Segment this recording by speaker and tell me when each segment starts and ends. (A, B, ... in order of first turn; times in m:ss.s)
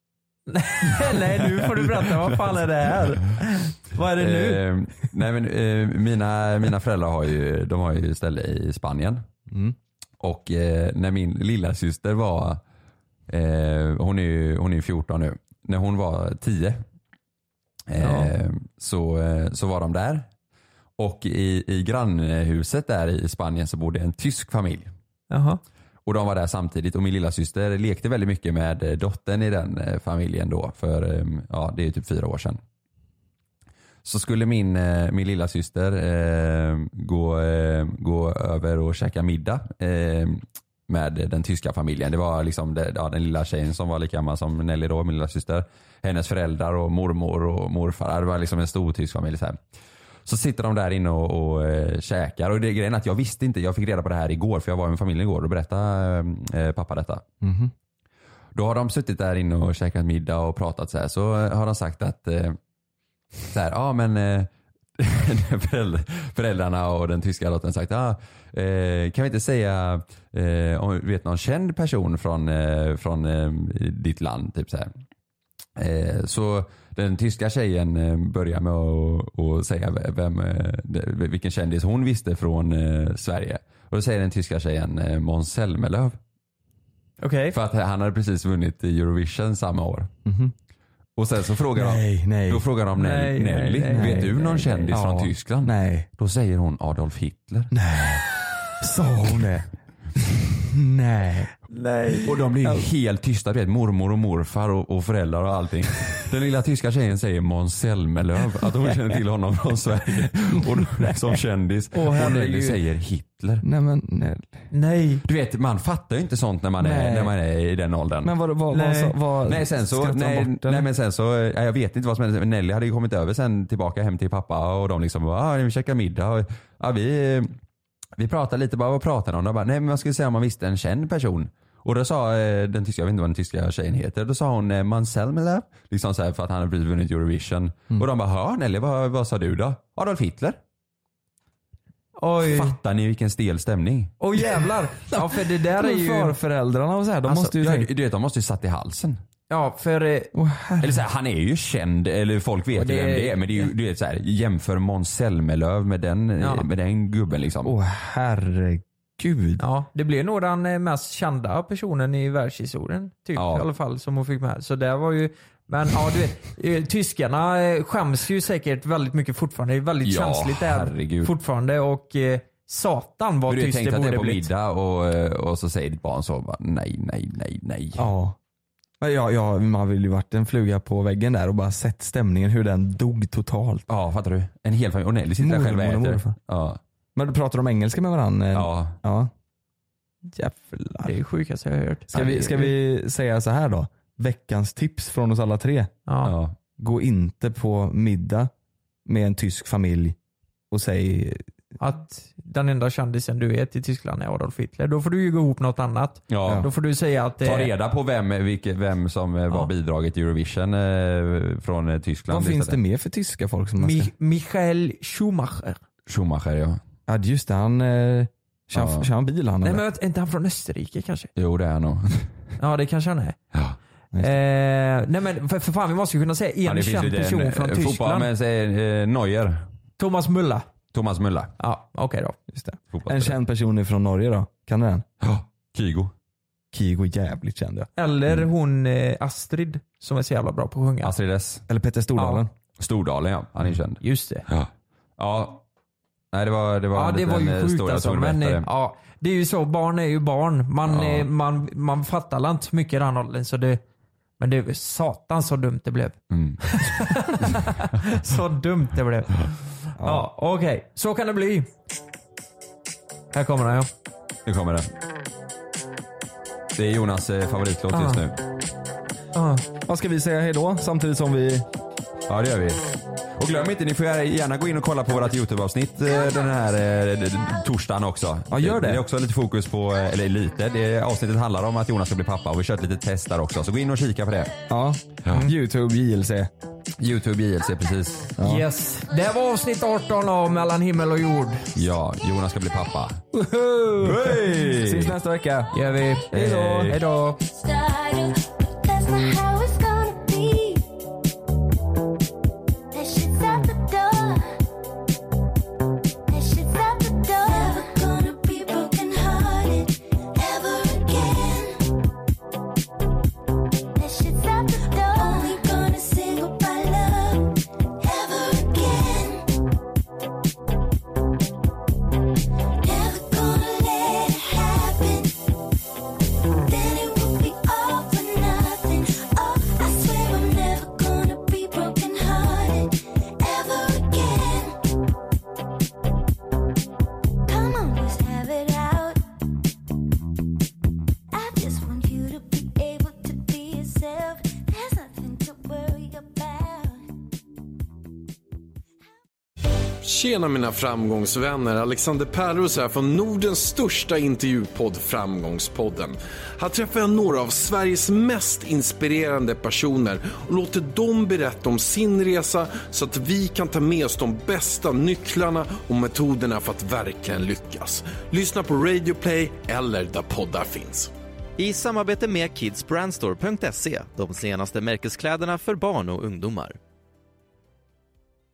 0:00.5-0:04.6 A
0:01.1-0:02.6 B
0:04.2-0:09.2 B
0:09.5-0:09.7 C
0:10.2-0:12.6 B
0:13.3-0:16.8 B
0:17.9-0:20.3 B
0:18.0-0:18.3 A
0:21.0-0:24.9 B
0:25.3-0:25.6 A
0:26.0-0:32.6 B
0:34.0-0:49.6 B
0:50.2-0:57.2 B
0:57.4-0:57.7 C
0:58.5-1:02.6 B
1:03.5-1:14.9 B
1:15.8-1:26.2 B
1:27.2-1:27.6 A
1:27.5-1:30.1 B
1:30.2-1:30.5 C
1:31.2-1:37.7 B
1:31.7-1:32.6 C
1:33.0-1:34.9 A
1:33.9-1:34.4 C
1:34.9-1:36.1 C
1:37.7-1:38.3 C
1:38.8-1:41.5 C
1:41.7-1:42.3 A
1:42.2-1:53.6 B
1:50.5-1:51.2 C
1:51.9-1:52.8 A
1:53.6-1:54.6 C
1:54.7-1:55.2 A
1:55.2-1:58.3 B
1:56.8-1:57.3 C
1:58.2-2:00.9 C
1:58.7-1:59.2 A
1:59.5-2:07.5 B
2:08.2-2:20.6 B
2:22.2-2:22.8 A
2:22.4-2:24.1 B
2:24.2-2:26.4 A
2:25.1-2:27.9 C
2:27.5-2:29.2 B
2:29.5-2:30.3 A
2:30.3-2:31.0 C
2:30.8-2:37.7 B
2:32.7-2:33.7 A
2:37.6-2:39.6 C
2:39.6-2:54.5 A
2:43.4-2:43.7 B
2:50.0-2:51.3 B
2:53.5-2:58.1 B
2:57.9-2:58.4 C
2:59.0-3:03.8 C
3:03.9-3:06.8 B
3:05.4-3:06.3 C
3:07.2-3:09.3 C
3:08.5-3:09.0 B
3:10.3-3:11.1 C
3:11.0-3:12.7 A
3:12.1-3:15.9 C
3:16.1-3:16.3 A
3:16.2-3:16.6 B
3:16.8-3:18.5 C
3:19.0-3:20.2 C
3:20.7-3:21.4 C
3:21.8-3:27.7 A
3:26.3-3:26.7 B
3:27.4-3:32.8 B
3:32.3-3:34.1 C
3:33.8-3:35.8 A
3:36.1-3:36.8 B
3:37.1-3:39.8 C
3:38.7-3:39.1 B
3:39.6-3:41.3 A
3:41.4-3:42.3 B
3:42.6-3:43.4 A
3:44.2-3:48.3 A
3:46.6-3:49.7 B
3:50.0-3:50.7 A
3:50.9-3:51.5 B
3:51.6-3:52.4 A
3:52.5-3:55.0 C
3:52.9-3:53.4 B
3:55.2-3:56.1 B
3:56.7-3:57.9 C
3:58.0-4:01.1 A
4:01.0-4:01.6 B
4:01.7-4:02.5 C
4:02.2-4:02.4 A
4:02.8-4:05.6 B
4:04.0-4:04.4 A
4:06.3-4:08.7 B
4:06.9-4:13.8 A
4:10.8-4:11.3 B
4:14.4-4:21.7 A
4:16.3-4:16.6 B
4:20.0-4:20.3 C
4:23.3-4:23.9 A
4:24.4-4:24.9 B
4:26.7-4:28.4 B
4:27.9-4:28.2 A
4:29.3-4:29.6 A
4:29.8-4:31.6 C
4:32.3-4:32.8 B
4:33.4-4:44.5 B
4:38.5-4:39.0 C
4:44.7-4:46.5 C
4:47.0-4:48.3 B
4:48.4-4:48.6 C
4:48.4-4:51.7 A
4:51.7-4:53.2 B
4:53.3-4:55.7 C
4:54.0-4:55.2 B
4:55.7-4:57.4 A
4:56.3-4:57.0 C
4:56.4-4:57.0 B
4:57.4-5:00.9 D
5:02.9-5:04.6 D
5:06.3-5:11.9 D
5:13.9-5:19.5 D
5:22.8-5:25.4 D
5:26.7-5:34.8 D
5:37.5-5:39.2 D
5:41.3-5:47.0 D
5:50.0-6:11.1 E
6:11.6-6:16.8 F